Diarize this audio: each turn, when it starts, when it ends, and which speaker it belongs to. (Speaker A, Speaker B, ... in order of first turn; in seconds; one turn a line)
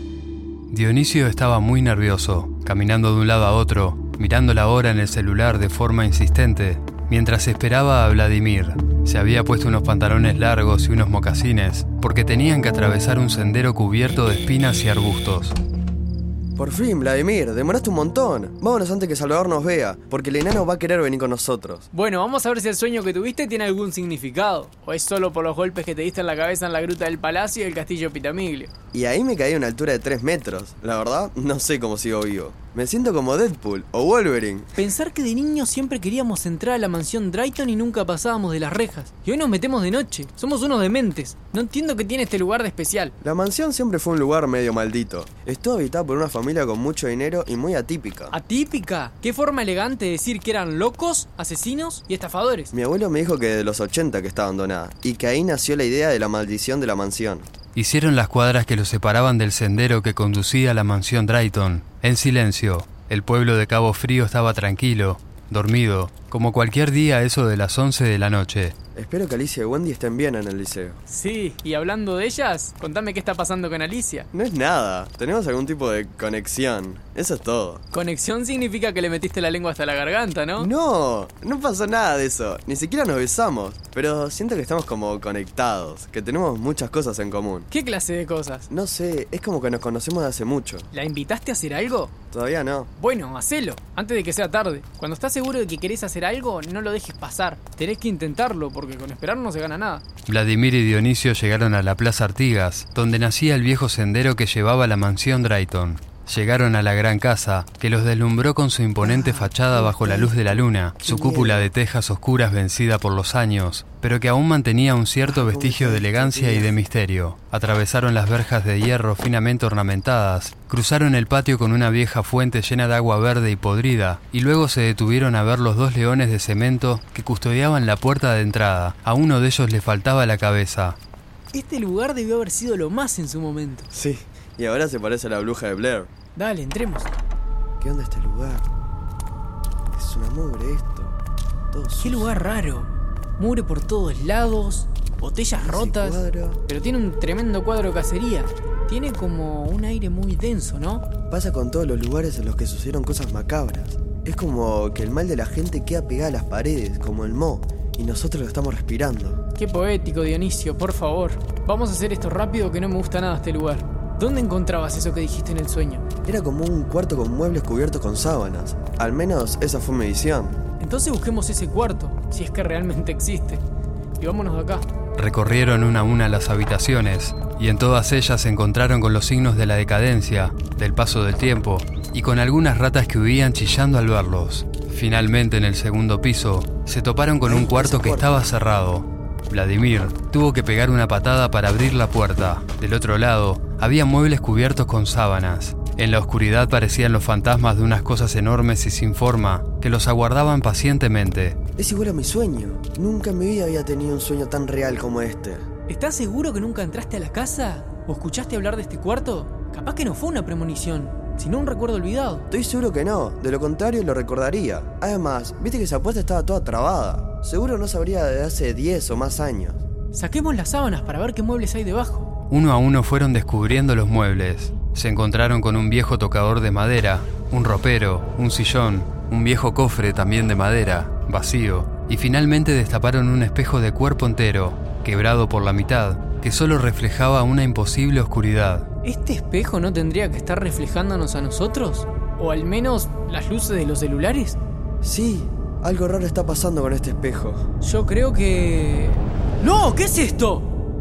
Speaker A: 0.7-15.6
Speaker B: 16.6-21.9
Speaker C: 21.9-28.7
Speaker B: 28.9-34.7
Speaker C: 34.8-43.1
Speaker B: 43.2-48.4
Speaker C: 48.3-52.7
Speaker B: 52.7-57.5
Speaker A: 57.8-68.8
Speaker B: 69.0-71.0
Speaker C: 71.1-74.3
Speaker B: 74.3-77.8
Speaker C: 77.9-80.7
Speaker B: 80.6-87.7
Speaker C: 87.7-88.7
Speaker B: 88.7-90.9
Speaker C: 90.9-92.1
Speaker B: 92.3-92.9
Speaker C: 93.0-100.1
Speaker A: 100.3-131.0
Speaker B: 109.0-111.7
Speaker B: 115.2-116.7
Speaker C: 131.5-133.9
Speaker B: 133.9-136.1
Speaker C: 136.3-137.1
Speaker B: 137.8-138.7
Speaker B: 139.9-141.2
Speaker B: 141.7-142.3
Speaker C: 142.0-151.0
Speaker B: 145.6-146.6
Speaker B: 151.3-159.4
Speaker C: 159.6-166.0
Speaker B: 166.2-170.6
Speaker C: 170.8-173.6
Speaker C: 174.2-174.8
Speaker A: 175.2-201.6
Speaker B: 187.5-188.5
Speaker B: 201.8-205.6
Speaker C: 205.9-212.4
Speaker B: 212.5-219.8
Speaker C: 220.1-222.3
Speaker A: 222.5-238.9
Speaker C: 239.0-244.6
Speaker B: 245.0-247.6
Speaker C: 247.8-250.7